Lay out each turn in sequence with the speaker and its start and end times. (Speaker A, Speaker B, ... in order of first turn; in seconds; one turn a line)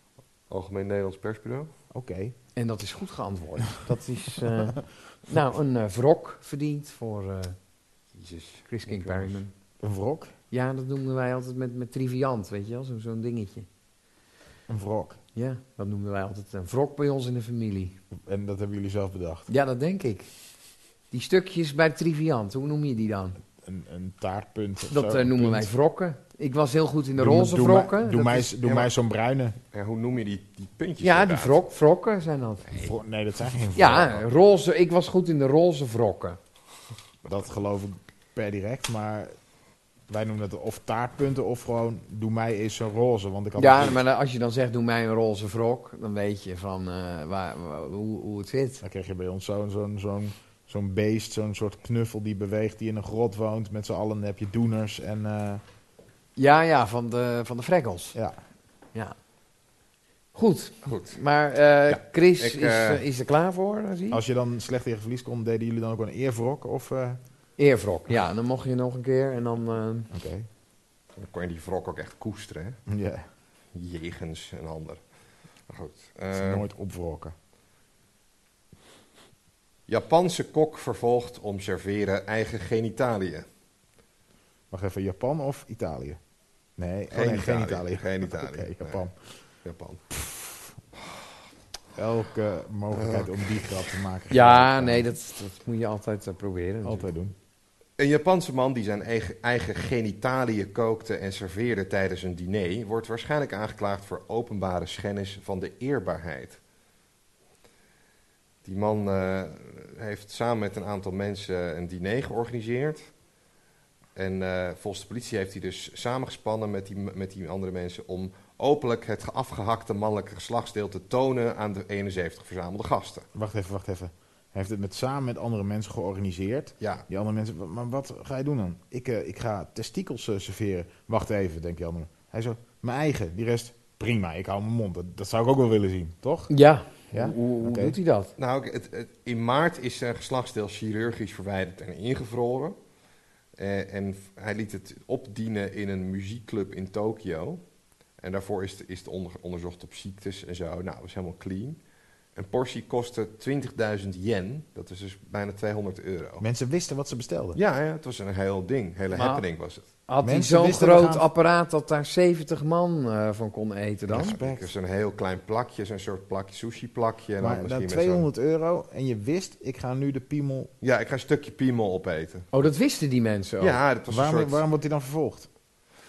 Speaker A: 0.5-1.7
Speaker B: 1.9-2.3
Speaker C: 2.5-7.5
Speaker A: 8.2-9.4
Speaker C: 8.7-9.5
Speaker B: 9.8-10.3
Speaker C: 10.5-13.7
Speaker B: 14.7-15.2
Speaker C: 15.3-18.0
Speaker B: 18.2-19.5
Speaker C: 19.5-20.3
Speaker C: 21.1-23.4
Speaker B: 23.6-25.7
Speaker C: 24.9-28.5
Speaker B: 27.2-29.6
Speaker A: 28.6-28.9
Speaker A: 29.7-31.6
Speaker C: 31.0-32.7
Speaker B: 32.8-34.2
Speaker C: 33.7-36.4
Speaker B: 37.2-39.3
Speaker B: 40.1-44.0
Speaker C: 43.6-48.8
Speaker B: 48.8-55.6
Speaker C: 56.4-58.1
Speaker C: 60.3-64.2
Speaker A: 60.8-61.2
Speaker A: 61.9-63.0
Speaker B: 64.1-67.2
Speaker C: 67.6-70.1
Speaker B: 70.1-70.5
Speaker A: 71.2-72.8
Speaker B: 72.9-73.2
Speaker A: 73.7-75.0
Speaker A: 75.7-76.7
Speaker B: 76.3-77.3
Speaker A: 79.9-83.5
Speaker B: 84.7-86.2
Speaker B: 86.8-89.1
Speaker A: 87.1-89.0
Speaker A: 89.6-90.0
Speaker B: 90.2-90.5
Speaker B: 91.9-95.1
Speaker A: 92.9-93.7
Speaker C: 94.3-97.1
Speaker B: 96.8-97.3
Speaker A: 98.0-106.6
Speaker A: 108.6-113.0
Speaker A: 114.2-123.3
Speaker B: 123.3-136.5
Speaker A: 126.8-127.0
Speaker C: 136.5-138.3
Speaker B: 137.1-137.9
Speaker A: 138.4-142.8
Speaker A: 143.6-147.6
Speaker A: 148.2-151.8
Speaker A: 152.3-156.4
Speaker B: 156.4-157.6
Speaker A: 157.5-159.8
Speaker C: 159.1-159.4
Speaker C: 160.1-164.3
Speaker B: 160.2-161.2
Speaker A: 164.1-168.3
Speaker B: 164.1-164.7
Speaker B: 167.4-170.7
Speaker A: 170.8-172.5
Speaker C: 172.5-173.8
Speaker A: 173.6-174.6
Speaker B: 174.1-175.5